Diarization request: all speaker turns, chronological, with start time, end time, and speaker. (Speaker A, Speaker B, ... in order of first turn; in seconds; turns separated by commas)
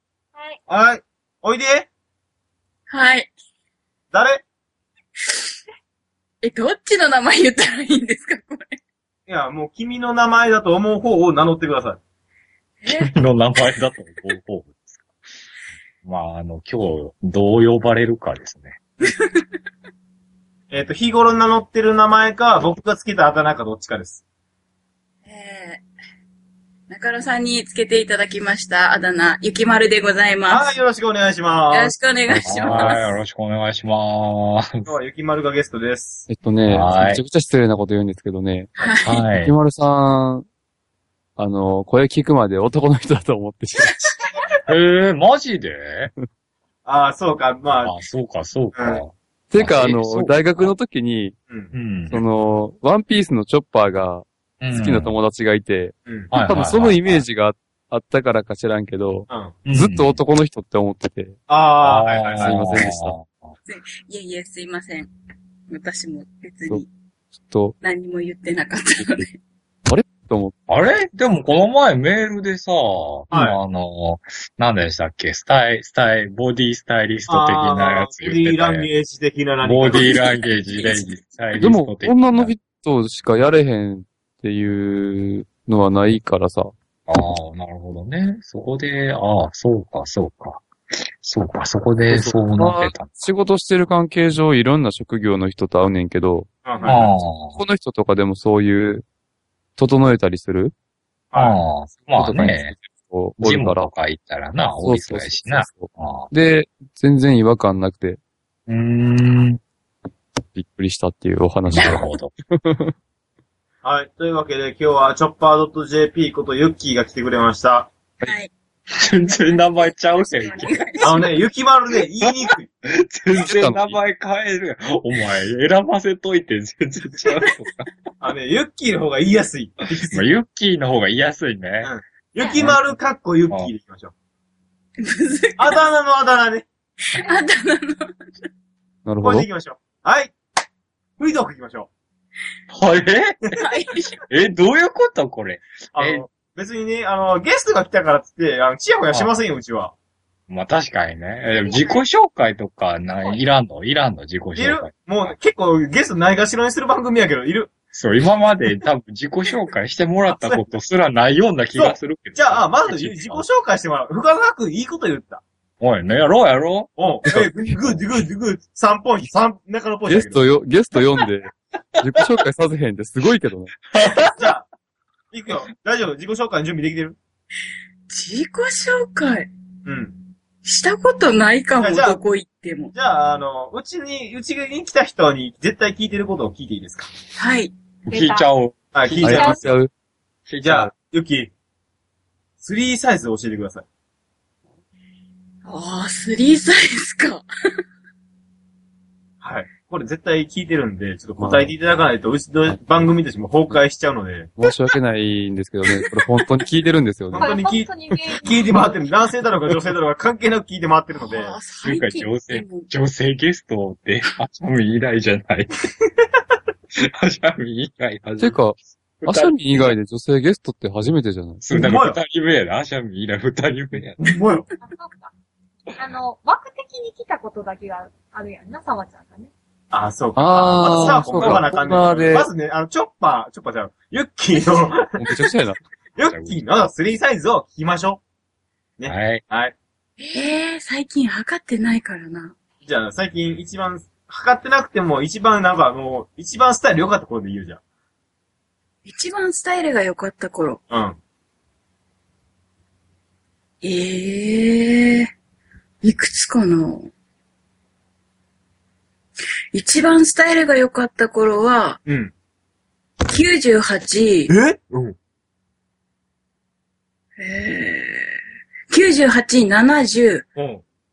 Speaker A: 0.7-1.9, Speaker B: 2.9-3.3, Speaker A: 4.1-4.4, Speaker B: 6.4-8.8, Speaker A: 9.3-12.0, Speaker B: 12.8-13.1, Speaker C: 12.9-15.1, Speaker C: 16.0-18.8, Speaker B: 19.0-19.5, Speaker A: 20.7-24.2, Speaker B: 25.3-25.9, Speaker B: 26.9-30.7, Speaker A: 30.5-31.9, Speaker B: 31.7-33.0, Speaker D: 32.3-33.0, Speaker C: 32.4-34.9, Speaker A: 34.9-36.3, Speaker D: 36.3-38.7, Speaker C: 36.7-37.2, Speaker B: 38.8-39.3, Speaker C: 39.0-39.5, Speaker D: 39.4-40.5, Speaker D: 41.4-44.0, Speaker C: 44.7-46.1, Speaker A: 46.9-47.9, Speaker C: 47.8-50.7, Speaker A: 48.8-49.0, Speaker D: 49.5-51.4, Speaker C: 51.7-52.2, Speaker D: 52.1-61.4, Speaker C: 54.6-55.1, Speaker C: 56.3-57.2, Speaker A: 59.3-59.5, Speaker C: 59.6-60.2, Speaker A: 61.5-62.6, Speaker C: 61.8-63.6, Speaker D: 62.4-63.1, Speaker B: 63.7-65.1, Speaker B: 65.7-66.8, Speaker D: 67.4-67.8, Speaker B: 67.8-69.4, Speaker D: 69.9-70.5, Speaker C: 70.7-78.9, Speaker A: 73.3-73.6, Speaker A: 77.3-80.1, Speaker C: 79.6-82.5, Speaker B: 79.9-81.1, Speaker D: 81.6-86.7, Speaker C: 87.1-93.2, Speaker D: 92.1-99.0, Speaker A: 96.7-97.1, Speaker C: 96.8-97.6, Speaker D: 99.8-100.7, Speaker A: 101.3-101.6, Speaker C: 101.4-102.7, Speaker D: 102.2-103.9, Speaker C: 103.4-106.3, Speaker D: 104.8-108.2, Speaker C: 108.7-109.6, Speaker D: 110.5-112.9, Speaker C: 111.7-112.3, Speaker A: 113.8-117.9, Speaker B: 118.2-118.5, Speaker C: 119.0-121.1, Speaker B: 119.1-121.3, Speaker A: 121.0-122.7, Speaker C: 122.3-127.9, Speaker D: 123.3-124.0, Speaker A: 128.2-130.3, Speaker C: 130.0-131.9, Speaker A: 131.8-134.1, Speaker B: 135.0-135.8, Speaker A: 135.6-136.7, Speaker B: 137.1-138.4, Speaker D: 139.1-139.5, Speaker A: 139.2-140.3, Speaker A: 141.2-141.9, Speaker C: 142.7-143.6, Speaker B: 143.6-144.2, Speaker C: 144.2-146.2, Speaker A: 145.9-149.9, Speaker C: 150.5-155.3, Speaker B: 151.6-152.0, Speaker A: 154.6-157.7, Speaker C: 157.9-163.4, Speaker A: 160.3-160.6, Speaker A: 161.8-165.4, Speaker C: 165.8-168.0, Speaker A: 167.0-170.5, Speaker D: 170.1-173.7, Speaker C: 173.9-174.4, Speaker A: 174.2-174.7, Speaker A: 175.3-177.2, Speaker B: 178.1-179.5, Speaker A: 179.8-180.1, Speaker B: 180.6-182.9, Speaker A: 181.8-182.2, Speaker A: 182.9-187.1, Speaker B: 187.4-187.7, Speaker C: 188.1-189.7, Speaker E: 188.1-188.5, Speaker A: 188.9-189.7, Speaker D: 189.2-189.9, Speaker C: 190.5-190.9, Speaker A: 190.6-191.5, Speaker A: 192.6-193.8, Speaker B: 195.7-197.4, Speaker A: 199.4-204.5, Speaker D: 201.4-201.7, Speaker D: 204.6-207.6, Speaker A: 207.3-207.9, Speaker E: 207.4-209.0, Speaker A: 208.4-211.6, Speaker B: 211.2-212.9, Speaker C: 211.8-215.8, Speaker C: 217.0-220.0, Speaker D: 218.4-221.6, Speaker C: 221.6-224.2, Speaker A: 221.7-222.2, Speaker A: 224.2-224.7, Speaker E: 224.8-225.3, Speaker E: 226.0-229.5, Speaker A: 229.9-235.2, Speaker D: 230.4-232.5, Speaker C: 231.4-231.7, Speaker D: 235.2-235.8, Speaker A: 236.2-238.2, Speaker C: 236.3-236.8, Speaker A: 239.0-239.7, Speaker C: 239.1-239.4, Speaker B: 240.2-242.6, Speaker A: 242.8-247.8, Speaker B: 249.1-250.8, Speaker A: 250.9-251.2, Speaker B: 253.8-255.3, Speaker B: 256.0-257.1, Speaker B: 259.7-262.0, Speaker A: 262.1-262.3, Speaker B: 263.2-264.5, Speaker A: 264.5-265.2, Speaker B: 267.4-268.4, Speaker B: 268.9-270.5, Speaker A: 270.6-270.8